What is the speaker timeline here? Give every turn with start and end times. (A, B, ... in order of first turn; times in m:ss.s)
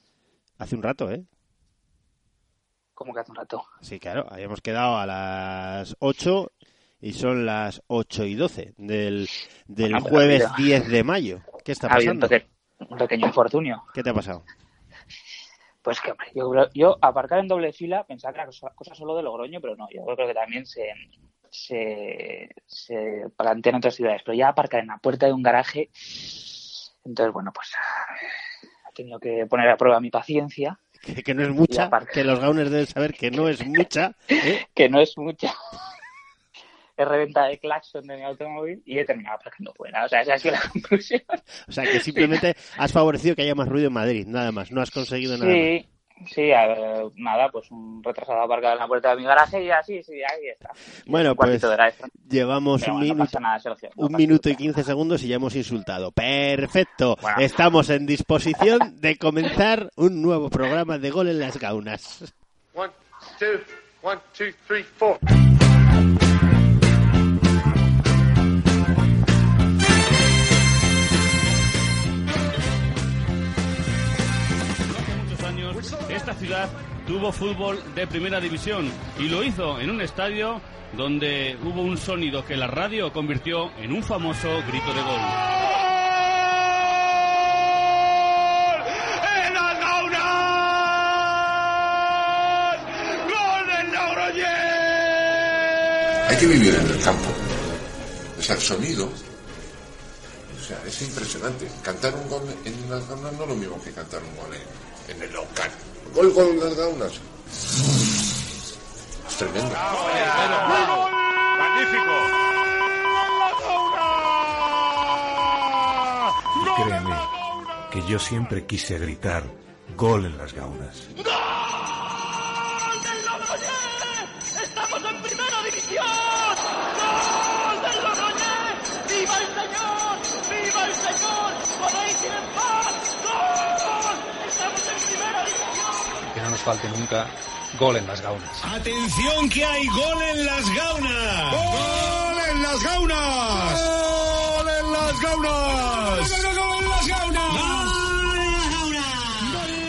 0:00.6-0:01.3 A
0:03.0-0:03.6 B
0:03.8-0:06.5 A
0:07.0-0:12.4 A
0:09.9-0:10.6 B
0:11.9-0:13.8 B
0:13.9-0:14.4 A
0:15.8-0:21.0 B
0:21.5-0:28.0 B
0:28.9-0:30.8 B
0:31.0-0:34.6 A
0:31.7-0:32.2 B
0:34.6-0:35.5 B
0:37.0-0:41.4 B
0:41.7-0:45.7 A
0:41.9-0:42.3 B
0:45.3-0:52.1 B
0:51.0-0:53.3 A
0:52.8-0:54.6 B
0:54.0-1:02.3 A
0:57.2-0:57.5 B
1:02.7-1:05.2 C
1:14.9-1:25.4 D
1:15.7-1:16.5 C
1:36.2-1:37.6 E
1:38.4-1:39.2 E
1:40.5-1:47.2 E
1:49.3-1:50.8 E
1:56.6-1:57.3 F
1:57.9-2:01.1 F
2:16.2-2:18.6 G
2:18.7-2:19.0 H
2:22.0-2:23.7 H
2:25.0-2:26.5 H
2:27.0-2:28.0 H
2:28.2-2:29.4 A